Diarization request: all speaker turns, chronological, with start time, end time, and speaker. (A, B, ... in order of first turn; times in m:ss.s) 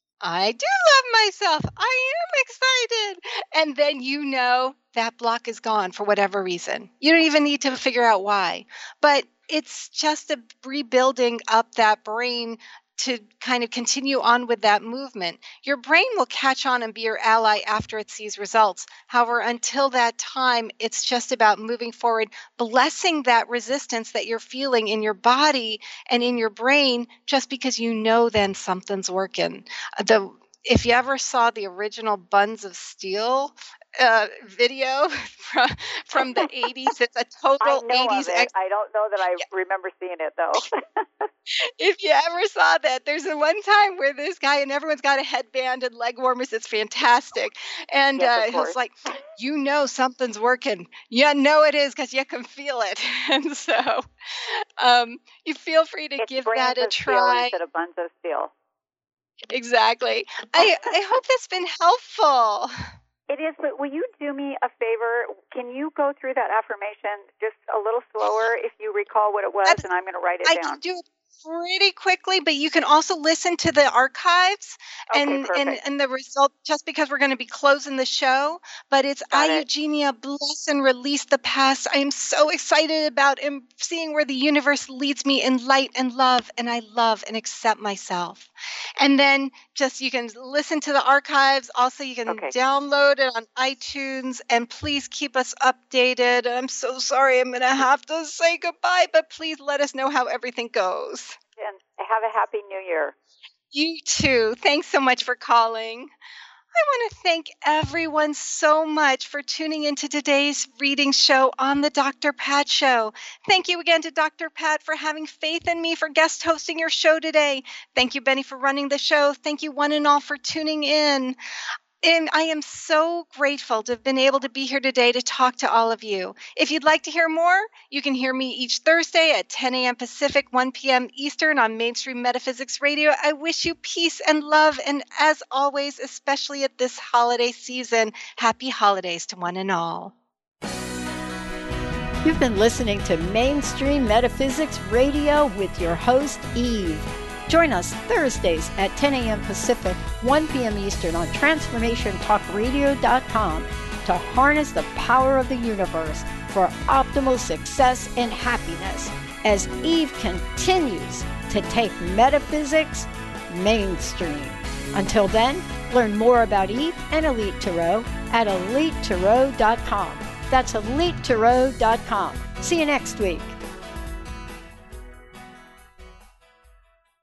0:00.2-0:38.5 A
0:36.2-0:36.5 B
0:37.6-0:41.3 B
0:41.8-0:57.5 A
0:48.2-0:48.8 B
0:56.2-0:58.5 B
0:59.5-1:02.7 A
1:03.3-1:10.8 B
1:10.4-1:41.4 A
1:15.1-1:15.8 B
1:19.3-1:19.6 B
1:32.3-1:32.5 B
1:41.6-1:43.1 B
1:43.7-1:46.1 A
1:46.7-2:01.4 A
2:02.0-2:20.1 A
2:22.2-2:53.6 C